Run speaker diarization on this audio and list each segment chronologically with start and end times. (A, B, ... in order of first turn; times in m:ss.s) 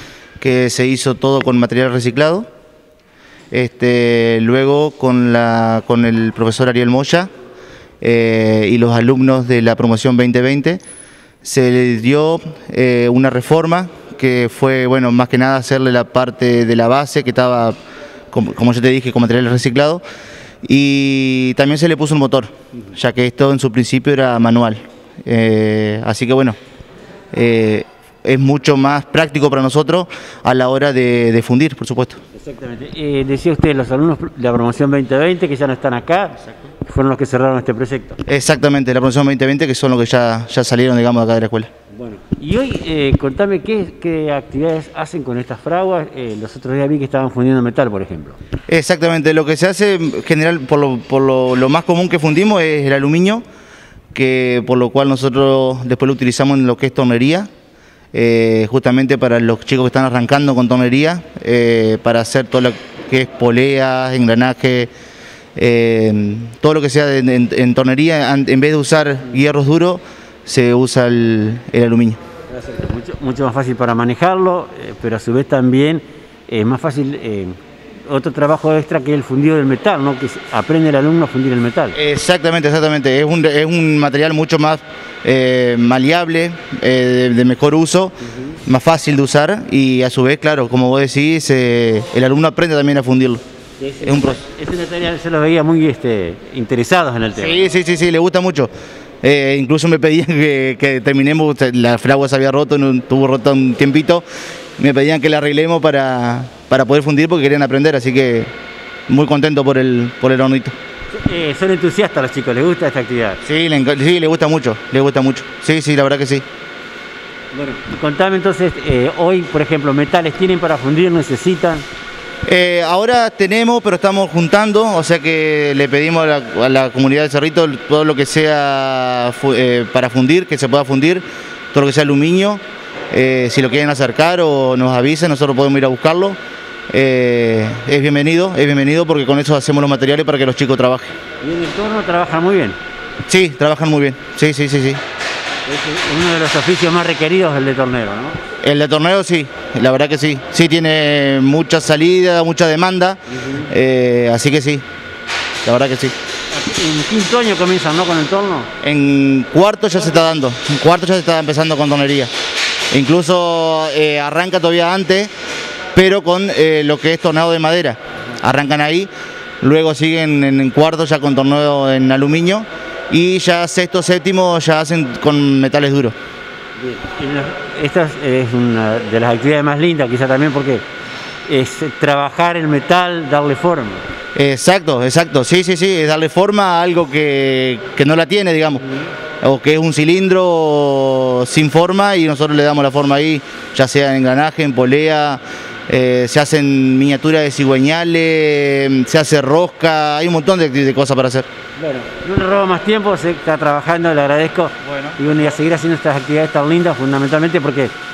0:00.4-0:02.4 A
0:03.5-0:07.3 A
0:08.0-0:10.8 A
0:11.4-0:17.7 A
0:18.3-0:20.0 A
0:20.6-0:26.6 A
0:27.3-0:32.2 A
0:32.3-0:38.2 B
0:38.3-0:41.7 A
0:41.9-0:48.4 B
0:48.7-0:53.4 A
0:54.1-0:57.5 A
0:58.1-1:04.9 A
1:05.6-1:12.2 A
1:12.5-1:22.0 B
1:22.0-1:28.1 A
1:28.6-1:33.4 A
1:33.8-1:37.7 B
1:34.0-1:34.4 A
1:37.4-1:38.7 A
1:39.2-1:44.2 A
1:44.8-1:48.5 A
1:49.1-1:50.7 A
1:51.1-1:53.4 B
1:53.4-1:56.4 A
1:57.5-2:01.8 B
2:02.5-2:16.4 A
2:16.9-2:21.1 A
2:21.4-2:22.8 B
2:23.3-2:25.0 A
2:25.7-2:28.4 B
2:28.6-2:34.8 A
2:33.3-2:33.7 B
2:35.6-2:36.1 A
2:36.5-2:38.7 B
2:38.8-2:42.3 A
2:42.9-2:45.3 A
2:45.9-2:49.1 A
2:49.6-2:56.1 A
2:56.8-3:00.8 B
3:01.4-3:04.0 B
3:04.3-3:08.8 A
3:09.4-3:21.4 A
3:21.8-3:27.9 B
3:24.8-3:25.5 A